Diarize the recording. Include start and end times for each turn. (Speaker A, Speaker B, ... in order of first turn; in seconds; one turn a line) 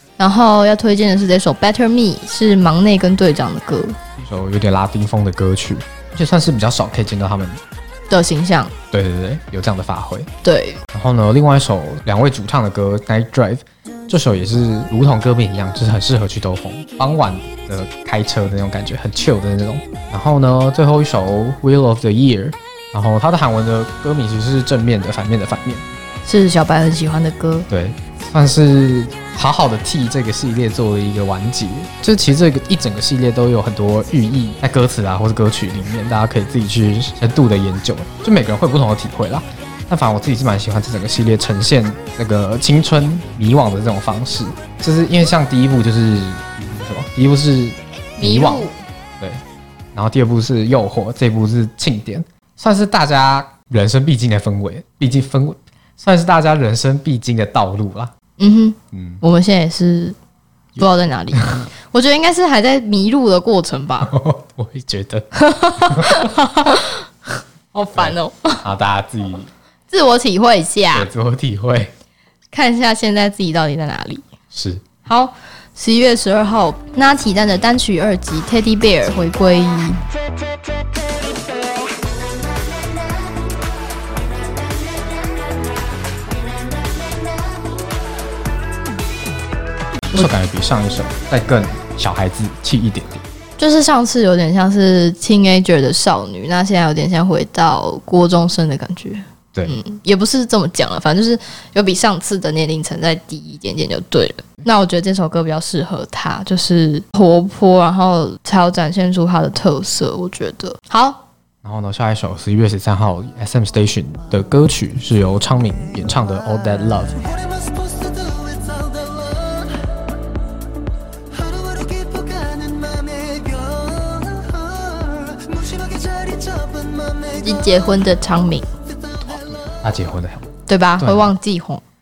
Speaker A: 0.2-4.0
Speaker B: 4.2-7.6
Speaker A: 8.1-8.7
Speaker B: 8.9-10.3
Speaker A: 10.4-10.8
Speaker B: 10.9-25.8
Speaker A: 26.3-27.7
Speaker B: 27.7-49.4
Speaker A: 48.2-48.8
Speaker B: 49.9-58.1
Speaker A: 58.4-60.1
Speaker B: 58.9-59.2
Speaker A: 60.8-64.1
Speaker B: 61.4-61.6
Speaker B: 64.0-65.3
Speaker A: 65.4-67.1
Speaker B: 65.8-66.3
Speaker A: 67.7-68.6
Speaker B: 68.0-69.5
Speaker A: 69.9-71.1
Speaker B: 70.9-71.9
Speaker A: 72.5-74.2
Speaker B: 74.5-74.8
Speaker A: 75.1-80.0
Speaker C: 86.4-87.2
Speaker B: 90.1-93.2
Speaker A: 93.6-111.2
Speaker B: 111.6-117.2
Speaker C: 117.6-119.0
Speaker C: 121.4-127.5
Speaker A: 127.4-128.7
Speaker B: 129.7-131.3
Speaker A: 130.7-131.8